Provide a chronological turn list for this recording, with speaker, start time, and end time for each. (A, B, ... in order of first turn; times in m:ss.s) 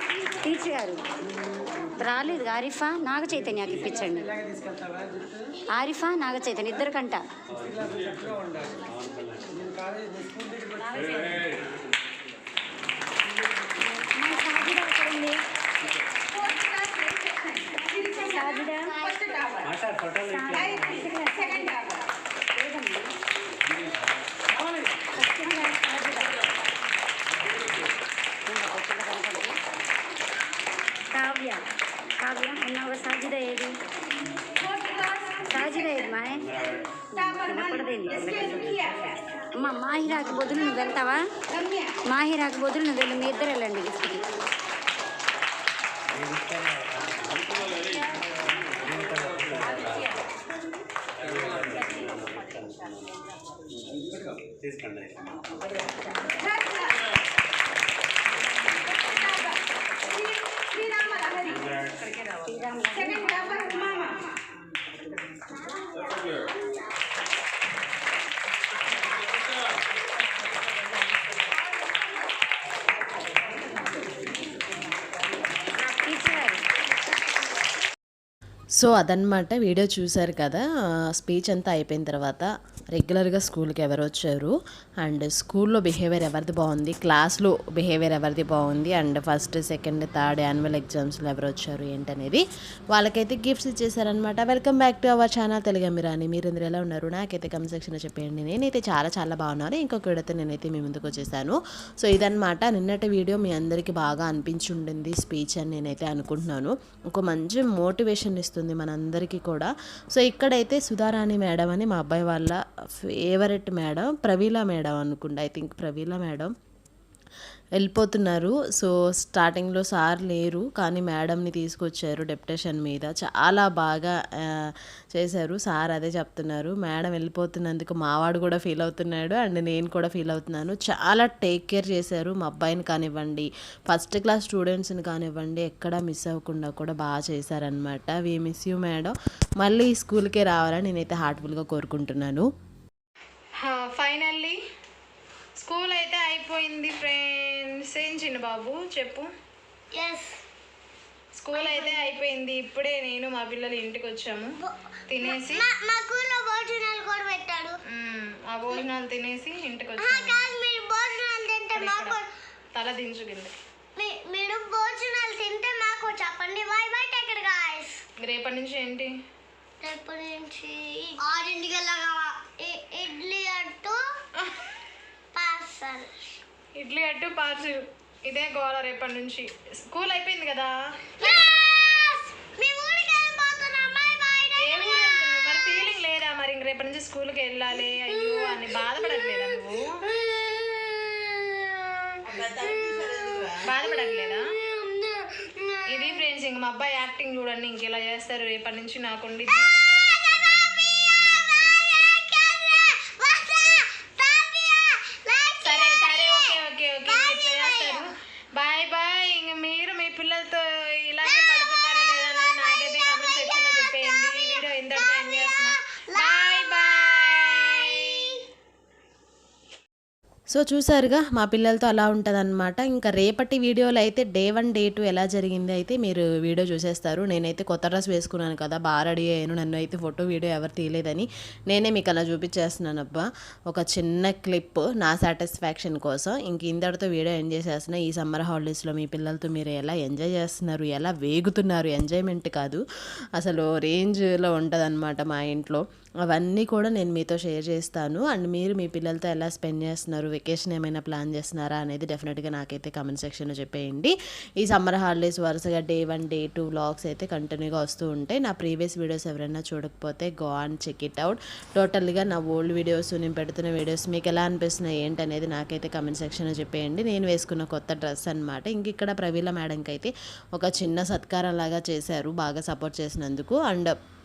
0:00.4-0:01.1 A
0:02.0-0:04.4 A
0:05.7-0:07.2 A
0:07.6-0:09.7 B
0:10.6-0:11.5 A
0:13.8-0:15.4 A
0:17.7-0:22.0 A
0:19.7-0:20.6 B
0:22.6-0:23.1 A
0:25.2-0:26.4 A
0:28.5-0:29.5 A
0:31.1-0:31.6 A
0:32.2-0:33.7 A
0:35.3-0:36.5 A
0:37.1-0:41.2 A
0:42.0-0:44.2 A
0:46.2-0:47.7 B
0:48.8-0:50.2 B
0:51.3-0:53.1 B
0:54.6-0:55.4 B
1:02.3-1:04.1 A
1:15.7-1:16.6 A
1:18.8-1:56.5 C
1:57.8-2:22.5 C
2:23.6-2:24.6 D
2:25.6-2:29.3 D
2:30.0-2:30.4 E
2:31.4-2:34.6 D
2:31.5-2:32.1 E
2:34.6-2:37.8 E
2:35.1-2:35.6 D
2:37.9-2:40.4 D
2:40.0-2:42.2 E
2:41.7-2:42.2 D
2:42.8-2:43.6 D
2:44.0-2:48.0 E
2:48.2-2:49.1 D
2:49.8-2:54.0 E
2:55.4-2:56.1 E
2:56.8-3:00.7 D
3:01.2-3:05.9 E
3:04.6-3:10.0 D
3:08.1-3:13.2 E
3:12.3-3:13.6 C
3:13.6-3:14.4 D
3:13.7-3:16.2 E
3:15.9-3:19.7 D
3:20.0-3:28.1 E
3:25.6-3:38.3 D
3:31.3-3:38.4 E
3:40.5-4:02.8 C
4:03.4-4:33.9 C